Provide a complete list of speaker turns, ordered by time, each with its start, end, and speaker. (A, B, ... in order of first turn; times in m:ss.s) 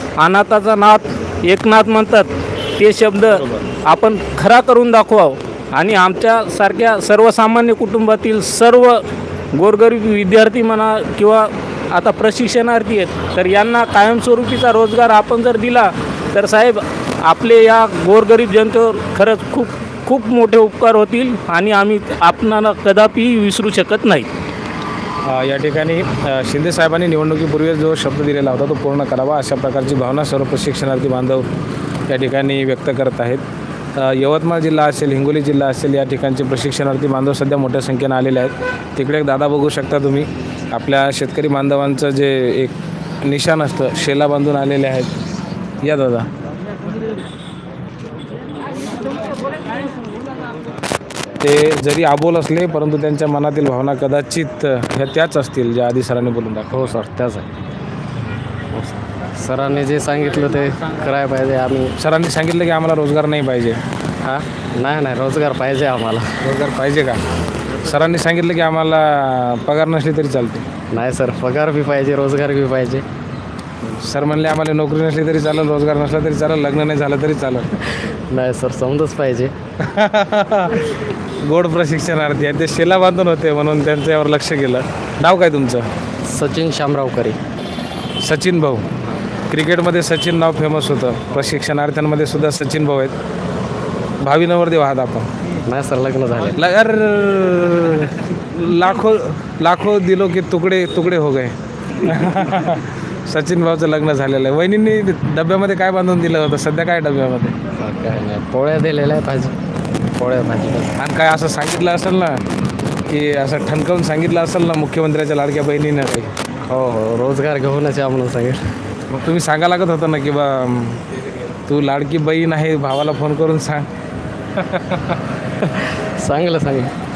0:00.2-0:24.3 A
0:25.2-0:31.5 B
0:32.1-0:33.4 B
0:34.0-0:45.1 B
0:45.8-0:46.3 B
0:51.4-0:56.9 B
0:56.7-0:57.5 C
0:58.7-1:01.9 C
1:02.0-1:03.8 B
1:04.2-1:06.2 C
1:06.4-1:07.2 B
1:07.8-1:10.7 B
1:10.9-1:13.0 C
1:13.8-1:17.7 B
1:18.0-1:19.5 C
1:19.8-1:20.9 B
1:21.4-1:25.9 B
1:26.3-1:27.4 C
1:28.2-1:28.9 B
1:29.5-1:33.1 B
1:34.2-1:35.3 B
1:35.7-1:36.6 C
1:36.5-1:47.6 B
1:47.8-1:49.5 C
1:50.2-1:50.9 C
1:51.0-1:52.4 B
1:53.1-1:56.3 B
1:56.7-1:58.6 C
1:59.1-2:03.9 B
2:04.6-2:05.2 B
2:05.7-2:06.9 C